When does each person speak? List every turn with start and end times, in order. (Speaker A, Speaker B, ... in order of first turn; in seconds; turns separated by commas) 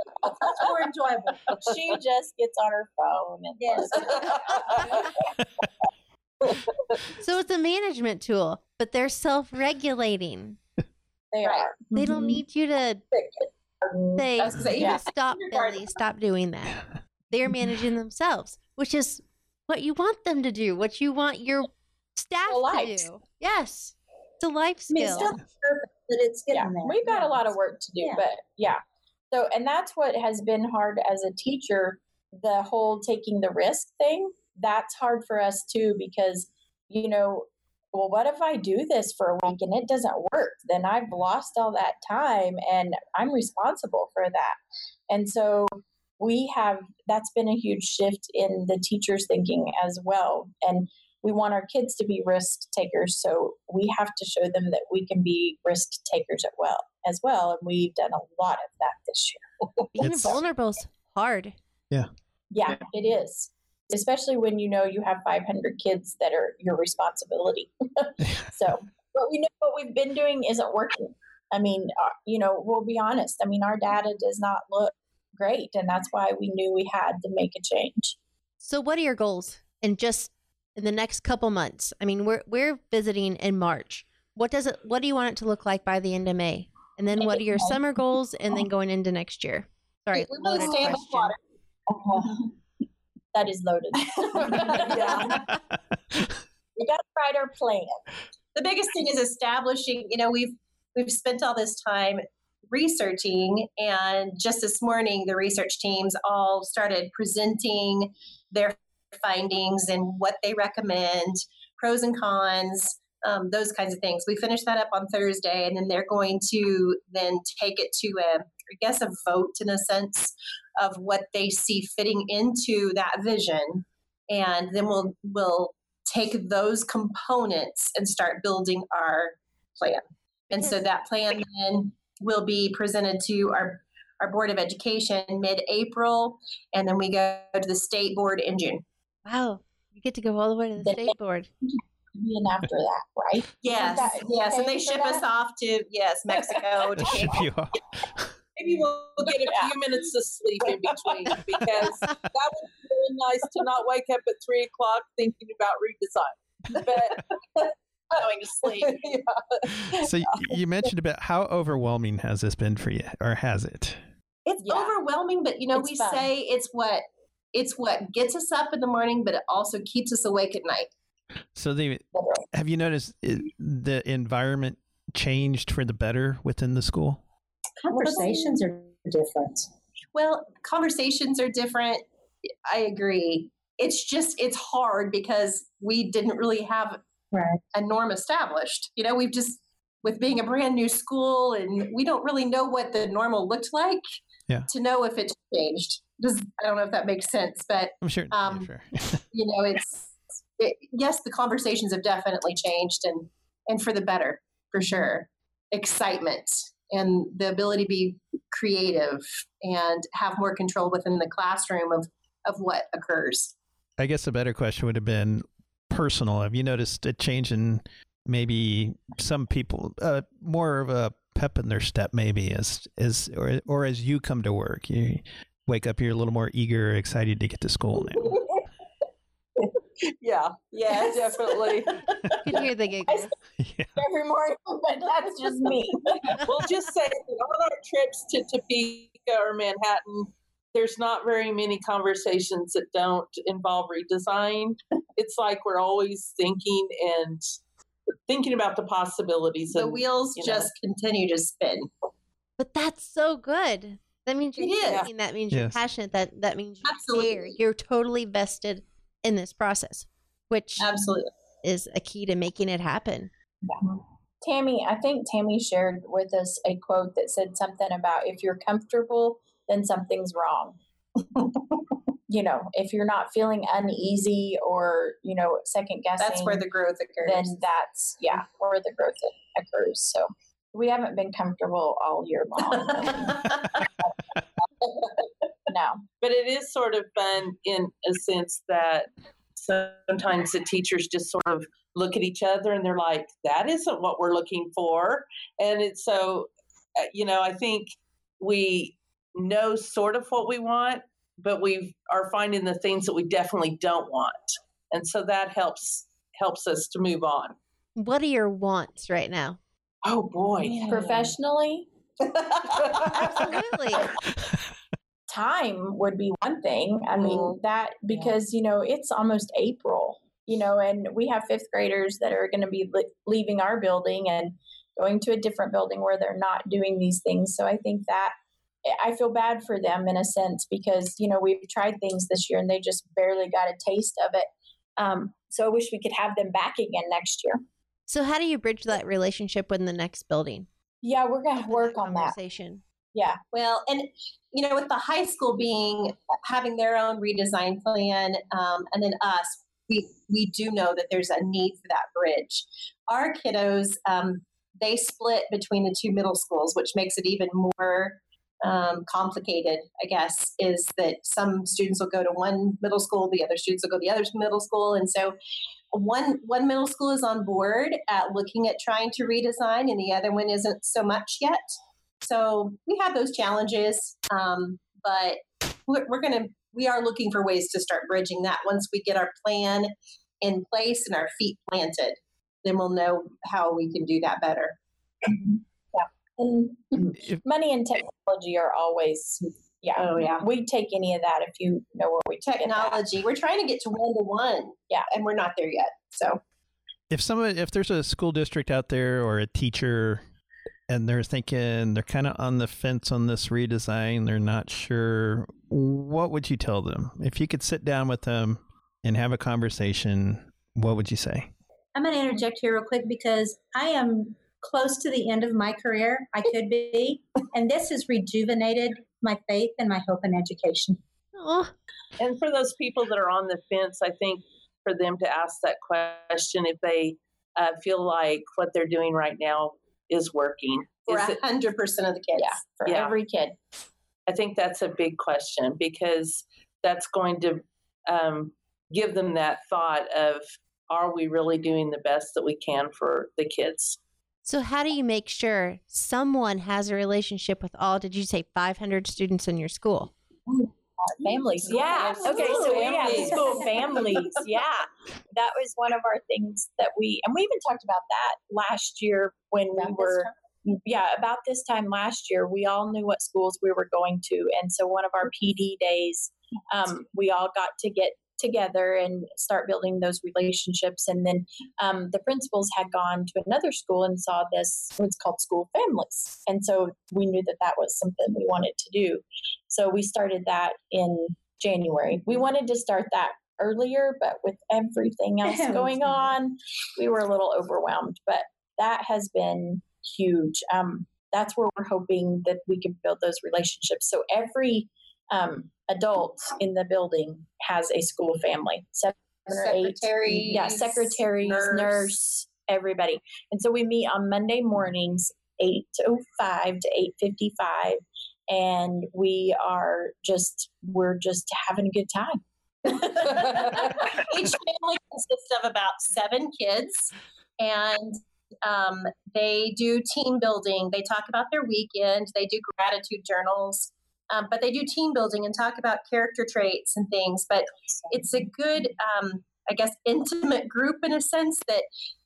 Speaker A: 0.3-1.6, Speaker B: 0.4-0.7, Speaker B: 1.5-5.1, Speaker A: 3.6-5.0, Speaker C: 7.2-10.6, Speaker B: 11.3-12.4, Speaker C: 11.9-13.1, Speaker B: 13.8-15.0, Speaker C: 14.2-25.3, Speaker D: 14.4-16.0, Speaker B: 22.5-23.1, Speaker A: 24.9-28.3, Speaker B: 26.5-59.5, Speaker C: 60.0-61.5, Speaker E: 60.0-60.4, Speaker B: 62.5-78.2, Speaker C: 78.6-91.3, Speaker D: 90.1-91.4, Speaker B: 93.3-95.4, Speaker F: 94.9-95.4, Speaker B: 96.8-98.0, Speaker D: 98.5-138.8, Speaker C: 139.2-141.5, Speaker B: 140.8-141.1, Speaker B: 141.7-145.2, Speaker D: 143.6-147.4, Speaker B: 146.4-146.6, Speaker E: 147.0-148.3, Speaker F: 148.6-157.7, Speaker B: 149.4-149.7, Speaker E: 152.1-152.3, Speaker B: 158.2-159.1, Speaker F: 158.6-160.5, Speaker E: 159.8-164.0, Speaker D: 164.5-167.0, Speaker B: 164.6-164.9, Speaker B: 165.7-166.3, Speaker D: 167.5-170.9, Speaker E: 171.6-177.2, Speaker A: 172.2-172.4, Speaker A: 177.8-179.7, Speaker D: 177.9-178.4, Speaker D: 180.2-182.1, Speaker D: 182.7-187.0, Speaker A: 187.3-187.6, Speaker D: 187.7-194.0, Speaker D: 194.7-198.7, Speaker E: 198.0-199.2, Speaker D: 199.3-213.5, Speaker E: 214.0-228.4, Speaker F: 230.2-232.1, Speaker B: 230.8-231.9, Speaker C: 232.4-233.3, Speaker E: 233.6-233.9, Speaker B: 234.0-236.4, Speaker F: 236.2-247.5, Speaker F: 248.3-250.7, Speaker D: 249.7-251.9, Speaker C: 252.6-260.9, Speaker D: 254.6-255.1, Speaker E: 255.5-255.8, Speaker D: 256.8-257.6, Speaker D: 260.8-261.3, Speaker C: 261.6-263.3, Speaker B: 264.4-270.8, Speaker B: 272.3-276.6, Speaker D: 276.2-277.6, Speaker B: 277.2-283.5, Speaker B: 285.7-286.1, Speaker F: 286.2-307.6, Speaker C: 308.0-309.6, Speaker F: 310.0-311.3, Speaker B: 310.9-311.9, Speaker F: 312.4-313.6, Speaker C: 313.1-314.1, Speaker E: 314.3-314.6, Speaker B: 315.3-328.3, Speaker B: 328.9-337.6, Speaker C: 338.1-340.7, Speaker B: 341.0-342.4, Speaker C: 341.7-342.8, Speaker B: 343.1-343.4, Speaker D: 343.5-365.4, Speaker D: 365.9-371.7, Speaker D: 372.2-384.8, Speaker B: 385.3-393.0, Speaker E: 387.2-387.4, Speaker D: 390.0-390.4, Speaker D: 392.5-396.4, Speaker E: 397.1-400.2, Speaker E: 400.9-411.5, Speaker A: 411.9-421.0, Speaker C: 421.4-421.7, Speaker F: 422.2-431.4, Speaker D: 431.1-432.7, Speaker B: 432.4-433.6, Speaker F: 432.9-433.1, Speaker F: 434.3-444.0, Speaker C: 444.5-450.1, Speaker B: 451.1-514.0, Speaker D: 451.6-453.8, Speaker F: 451.7-453.6, Speaker D: 459.8-460.3, Speaker A: 485.4-486.3, Speaker D: 499.5-502.1, Speaker D: 512.9-531.9